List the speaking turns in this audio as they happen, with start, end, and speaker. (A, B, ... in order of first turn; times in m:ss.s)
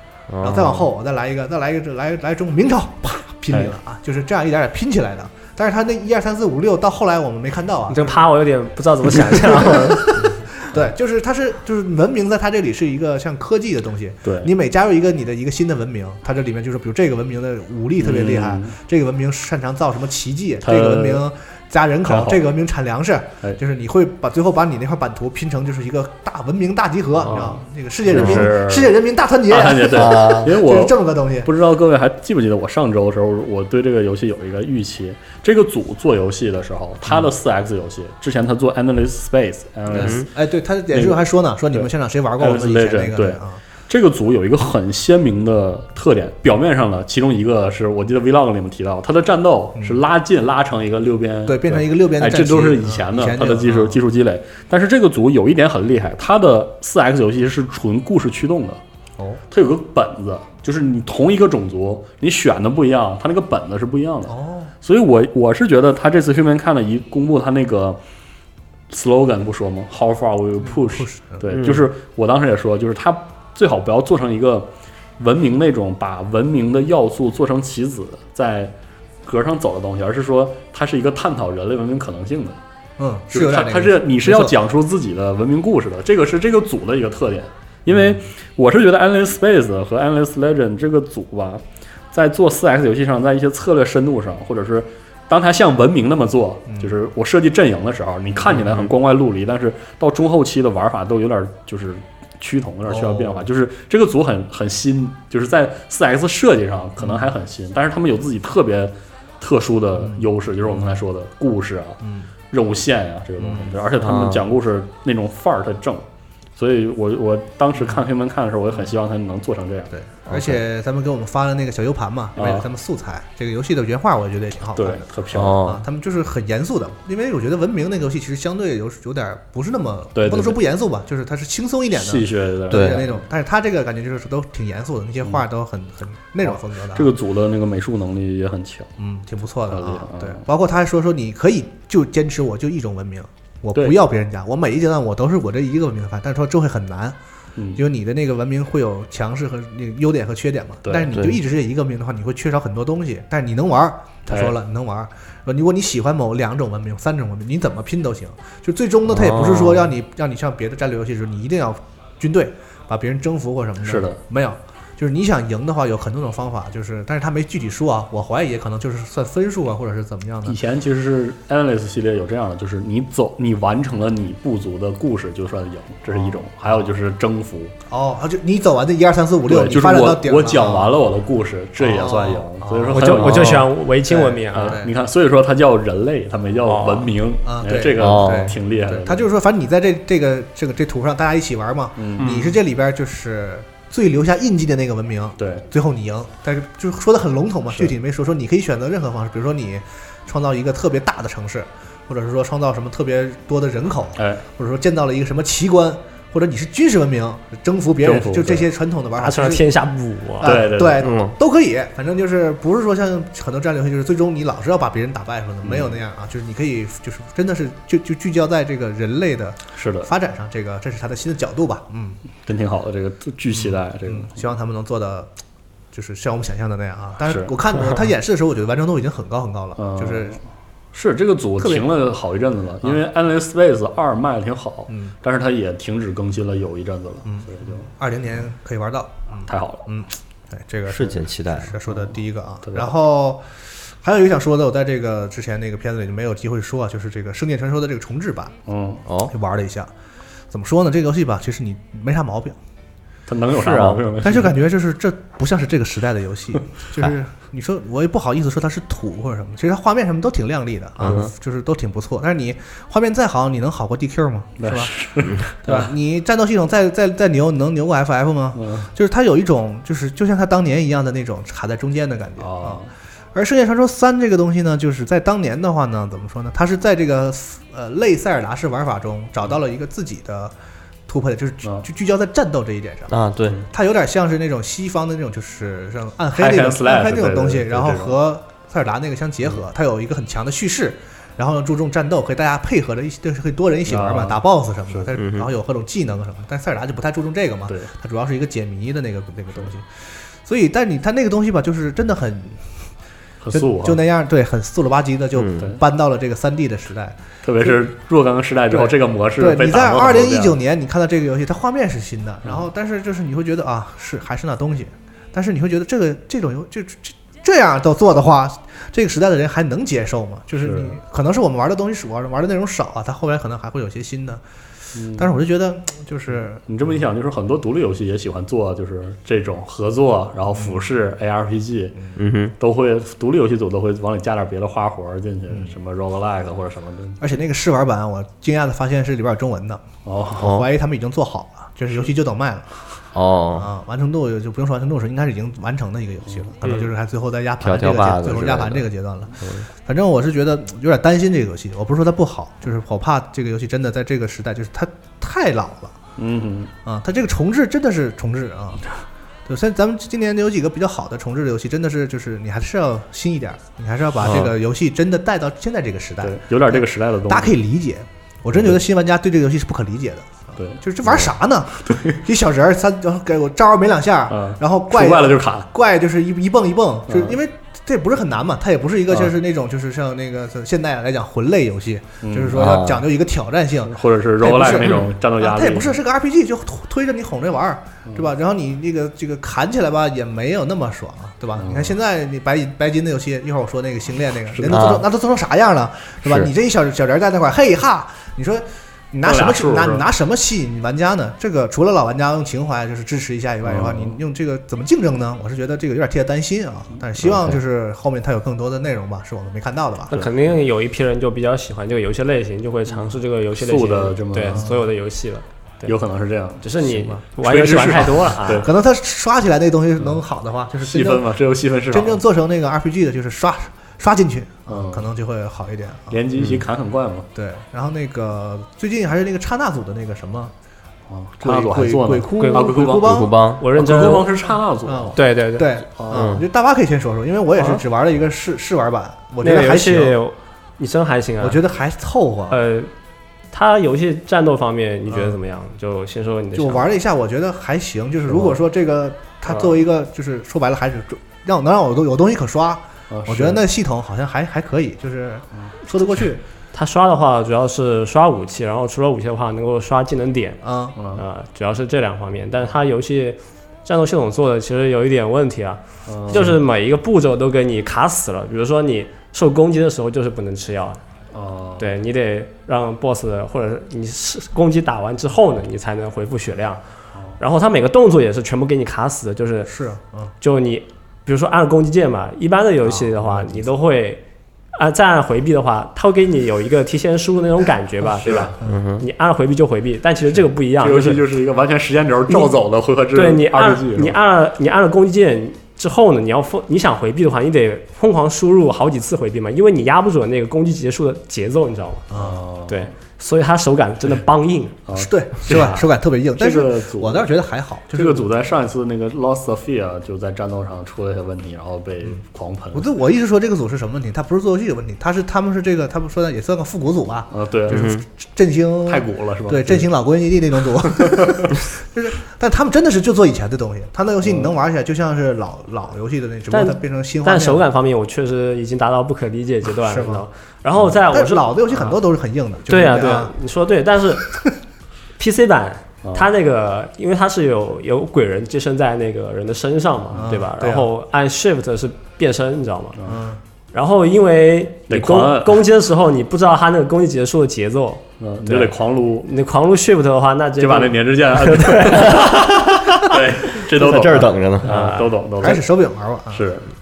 0:00.3-0:00.9 A
0:00.4-0:08.2 B
0:07.9-0:10.2 C
0:09.2-0:31.5 B
0:14.2-0:14.5 D
0:18.0-0:18.7 D
0:20.6-0:21.2 D
0:22.1-0:22.4 D
0:27.2-0:29.0 D
0:28.1-0:28.5 A
0:29.5-0:40.3 D
0:29.9-0:30.6 A
0:39.9-0:43.6 B
0:39.9-0:40.3 A
0:40.9-0:41.2 D
0:42.4-0:58.8 D
0:49.8-0:50.0 B
0:51.5-0:54.0 B
0:59.5-1:08.0 D
1:04.3-1:04.7 B
1:08.9-1:18.7 D
1:10.6-1:11.5 B
1:11.5-1:11.9 A
1:19.2-1:22.6 D
1:23.0-1:24.6 B
1:23.3-1:56.0 D
1:27.9-1:28.2 B
1:36.7-1:37.0 B
1:42.9-1:43.5 B
1:47.0-1:47.4 B
1:50.0-1:51.0 B
1:52.0-1:52.3 B
1:53.4-1:53.8 B
1:54.0-1:54.4 A
1:56.6-1:59.9 D
1:59.9-2:17.1 B
2:00.3-2:00.6 A
2:02.4-2:02.6 D
2:04.8-2:05.6 D
2:05.3-2:05.8 A
2:10.2-2:10.6 D
2:11.9-2:13.2 D
2:12.7-2:13.0 A
2:16.4-2:18.9 D
2:19.0-2:27.2 B
2:19.7-2:20.4 D
2:27.6-2:27.8 D
2:27.8-2:50.6 B
2:30.9-2:31.2 D
2:31.1-2:31.4 A
2:39.1-2:39.9 A
2:43.8-2:44.2 D
2:50.5-2:57.7 D
2:56.2-2:56.4 B
2:57.9-3:01.0 B
2:59.5-3:03.7 D
3:01.8-3:03.5 B
3:02.9-3:04.8 C
3:03.2-3:03.6 A
3:04.1-3:04.9 B
3:04.5-3:09.2 D
3:06.6-3:07.1 C
3:07.4-3:29.7 B
3:08.0-3:08.5 A
3:12.0-3:12.4 D
3:15.4-3:15.7 D
3:24.2-3:24.4 D
3:28.0-3:28.6 D
3:29.2-3:30.5 C
3:30.4-3:42.2 B
3:30.4-3:31.0 D
3:31.0-3:31.4 A
3:35.6-3:36.0 D
3:39.8-3:40.1 D
3:42.4-3:44.3 D
3:43.5-3:45.3 B
3:45.9-3:50.4 B
3:47.2-3:47.5 D
3:49.8-3:50.4 D
3:50.9-3:57.8 D
3:57.3-4:08.6 B
3:59.5-3:59.8 D
4:00.9-4:01.8 A
4:02.7-4:02.9 D
4:08.7-4:09.0 D
4:09.1-4:09.3 A
4:09.3-4:09.9 B
4:10.5-4:12.6 B
4:13.3-4:14.6 D
4:13.6-4:14.0 A
4:14.2-4:40.5 B
4:21.0-4:21.3 A
4:24.6-4:25.9 D
4:28.6-4:28.9 D
4:32.4-4:32.9 D
4:41.1-5:02.9 B
4:43.1-4:43.6 A
4:46.4-4:48.1 D
4:53.9-4:55.1 D
4:55.2-4:55.5 A
5:03.4-5:04.0 D
5:03.5-5:07.8 B
5:05.4-5:05.7 A
5:07.4-5:10.6 D
5:08.7-5:24.4 B
5:20.6-5:21.0 D
5:25.0-5:25.3 D
5:25.0-5:26.6 B
5:26.7-5:32.0 D
5:30.6-5:30.9 B
5:32.2-5:32.6 A
5:32.6-5:37.2 D
5:37.2-5:39.9 B
5:40.0-5:40.6 D
5:40.4-5:40.7 A
5:40.4-5:42.7 B
5:43.1-5:43.7 A
5:43.6-5:56.0 B
5:47.6-5:48.8 A
5:49.4-5:49.7 A
5:56.2-5:56.7 D
5:56.8-5:58.9 B
5:59.5-6:50.2 B
6:04.2-6:04.5 D
6:06.2-6:07.5 D
6:08.5-6:08.8 D
6:11.8-6:12.2 D
6:14.3-6:15.7 D
6:17.1-6:17.4 D
6:22.2-6:22.6 D
6:22.5-6:23.0 A
6:23.9-6:26.0 D
6:31.6-6:32.0 D
6:34.7-6:35.0 A
6:39.2-6:40.0 D
6:43.6-6:44.2 D
6:47.2-6:47.4 D
6:50.1-6:55.9 C
6:53.5-6:54.6 D
6:54.5-6:54.8 B
6:55.9-6:58.7 D
6:56.6-6:58.7 C
6:57.7-7:01.3 B
7:00.8-7:02.2 D
7:01.9-7:06.3 B
7:04.7-7:05.0 D
7:06.1-7:07.3 D
7:07.4-7:10.5 B
7:11.1-7:15.3 D
7:11.4-7:13.5 B
7:12.3-7:13.0 C
7:13.0-7:13.6 A
7:13.6-7:14.3 C
7:14.8-7:20.2 B
7:15.2-7:15.7 C
7:16.0-7:16.3 D
7:16.1-7:16.4 A
7:17.6-7:17.8 C
7:19.4-7:21.6 C
7:21.4-7:22.6 B
7:22.5-7:22.9 C
7:23.5-7:26.9 C
7:25.1-7:25.4 B
7:26.6-7:36.4 B
7:28.3-7:28.6 D
7:29.5-7:29.8 D
7:33.1-7:33.6 D
7:36.7-7:51.0 C
7:40.6-7:41.0 B
7:41.0-7:41.2 D
7:46.1-7:46.6 D
7:51.3-7:51.9 D
7:51.8-7:56.8 C
7:57.4-7:59.7 C
7:59.7-8:00.3 B
8:00.4-8:04.2 C
8:02.8-8:03.7 B
8:04.7-8:11.2 C
8:08.2-8:08.6 D
8:08.6-8:09.0 A
8:10.8-8:14.2 D
8:13.1-8:22.1 C
8:22.1-8:22.4 B
8:22.2-8:22.9 D
8:22.7-8:24.8 C
8:24.9-8:27.3 D
8:25.0-8:28.3 B
8:25.4-8:25.8 C
8:27.9-8:32.9 D
8:32.7-8:47.7 B
8:37.3-8:37.9 D
8:37.7-8:38.0 A
8:38.9-8:39.9 D
8:41.1-8:41.4 D
8:44.2-8:44.6 D
8:46.5-8:52.0 C
8:49.9-8:53.3 B
8:52.7-8:54.4 C
8:55.2-9:03.0 C
8:56.0-8:56.3 D
9:00.1-9:00.9 B
9:03.0-9:03.4 B
9:03.7-9:12.5 C
9:04.9-9:05.6 D
9:08.2-9:09.3 D
9:10.6-9:15.6 D
9:13.5-9:14.8 A
9:14.7-9:15.1 C
9:15.4-9:16.5 B
9:16.3-9:16.6 D